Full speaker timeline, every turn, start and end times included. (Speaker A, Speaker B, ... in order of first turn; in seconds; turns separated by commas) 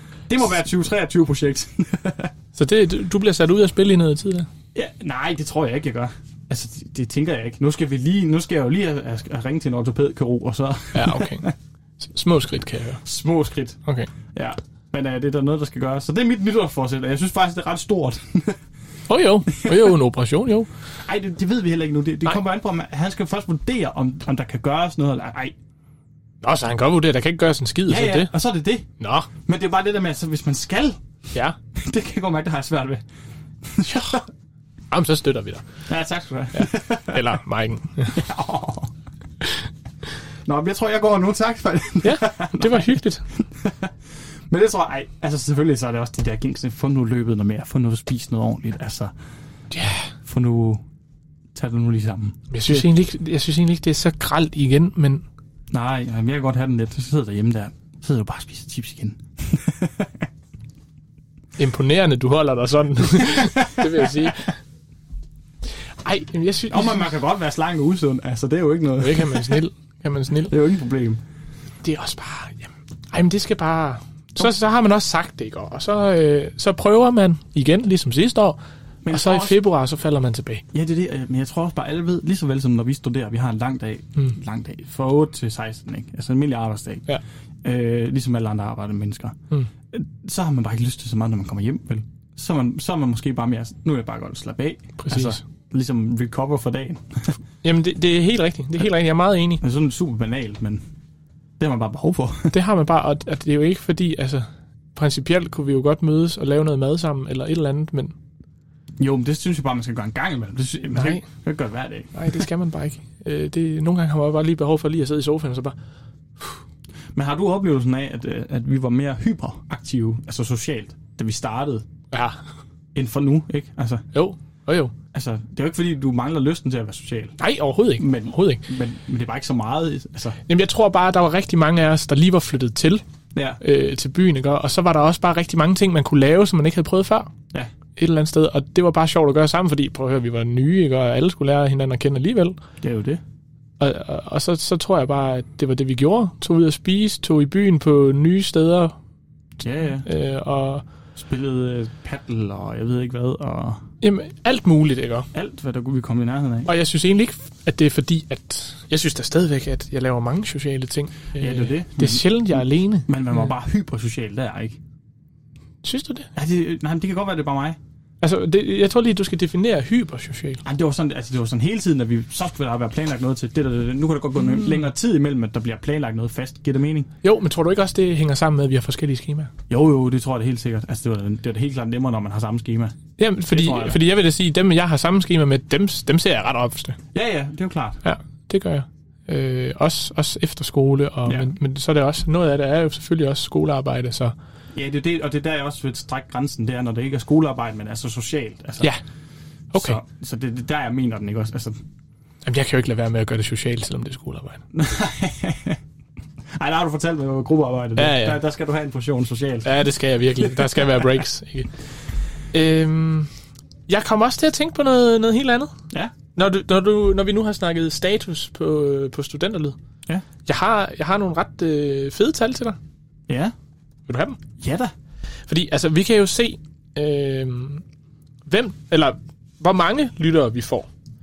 Speaker A: 0.3-2.3, Speaker B: 2.5-4.5, Speaker A: 4.7-11.5, Speaker B: 10.9-11.5, Speaker B: 12.0-13.0, Speaker A: 13.0-13.8, Speaker B: 13.8-14.1, Speaker A: 14.3-18.6, Speaker B: 19.1-20.7, Speaker A: 19.5-19.9, Speaker A: 21.1-25.5, Speaker B: 26.4-28.3, Speaker A: 27.9-28.9, Speaker B: 29.0-29.3, Speaker A: 29.5-31.0, Speaker A: 31.8-33.0, Speaker A: 33.8-34.2, Speaker B: 33.9-34.2, Speaker B: 34.9-35.6, Speaker A: 35.9-37.3, Speaker B: 36.5-38.2, Speaker A: 38.1-38.9, Speaker A: 40.5-43.0, Speaker B: 42.0-43.2, Speaker A: 43.6-43.9, Speaker A: 44.5-49.1, Speaker B: 49.7-50.1, Speaker A: 50.2-50.8, Speaker A: 51.5-52.9, Speaker B: 52.5-55.2, Speaker A: 55.7-60.2, Speaker B: 61.6-64.5, Speaker B: 66.0-67.1, Speaker A: 66.7-69.6, Speaker B: 69.0-70.5, Speaker A: 70.5-71.2, Speaker B: 71.8-78.6, Speaker A: 79.0-79.6, Speaker B: 79.1-80.6, Speaker A: 80.7-87.1, Speaker A: 87.6-89.3, Speaker A: 89.9-97.4, Speaker B: 95.0-95.4, Speaker B: 97.6-99.6, Speaker A: 99.6-100.8, Speaker A: 101.6-102.5, Speaker B: 102.5-108.1, Speaker A: 109.0-112.2, Speaker B: 111.0-111.2, Speaker B: 112.2-115.8, Speaker A: 117.2-121.9, Speaker B: 122.1-122.4, Speaker A: 123.0-124.0, Speaker B: 124.1-124.9, Speaker A: 125.1-127.4, Speaker B: 127.4-128.6, Speaker A: 128.0-130.4, Speaker B: 130.5-133.0, Speaker A: 133.3-133.6, Speaker B: 133.6-137.3, Speaker B: 138.0-142.6, Speaker A: 142.8-143.2, Speaker B: 143.8-148.9, Speaker A: 149.6-150.1, Speaker B: 150.0-150.8, Speaker A: 151.2-153.8, Speaker B: 154.0-155.3, Speaker A: 155.3-156.7, Speaker B: 156.7-163.1, Speaker A: 161.4-164.8, Speaker B: 165.8-166.3, Speaker A: 166.3-167.8, Speaker B: 168.2-170.6, Speaker A: 170.7-177.1, Speaker B: 174.5-174.7, Speaker B: 177.2-179.5, Speaker A: 179.7-182.9, Speaker B: 183.2-187.0, Speaker A: 183.5-184.0, Speaker A: 187.1-188.0, Speaker B: 188.0-194.3, Speaker A: 191.3-191.6, Speaker A: 194.7-198.9, Speaker B: 199.7-200.0, Speaker A: 199.7-201.8, Speaker B: 202.4-204.6, Speaker A: 204.7-205.8, Speaker A: 206.6-209.7, Speaker B: 208.0-208.4, Speaker B: 209.7-211.7, Speaker B: 212.5-213.3, Speaker B: 213.9-215.7, Speaker B: 216.3-219.8, Speaker B: 220.5-222.8, Speaker B: 224.1-224.4, Speaker A: 224.6-224.9, Speaker B: 225.5-227.8, Speaker B: 228.5-230.9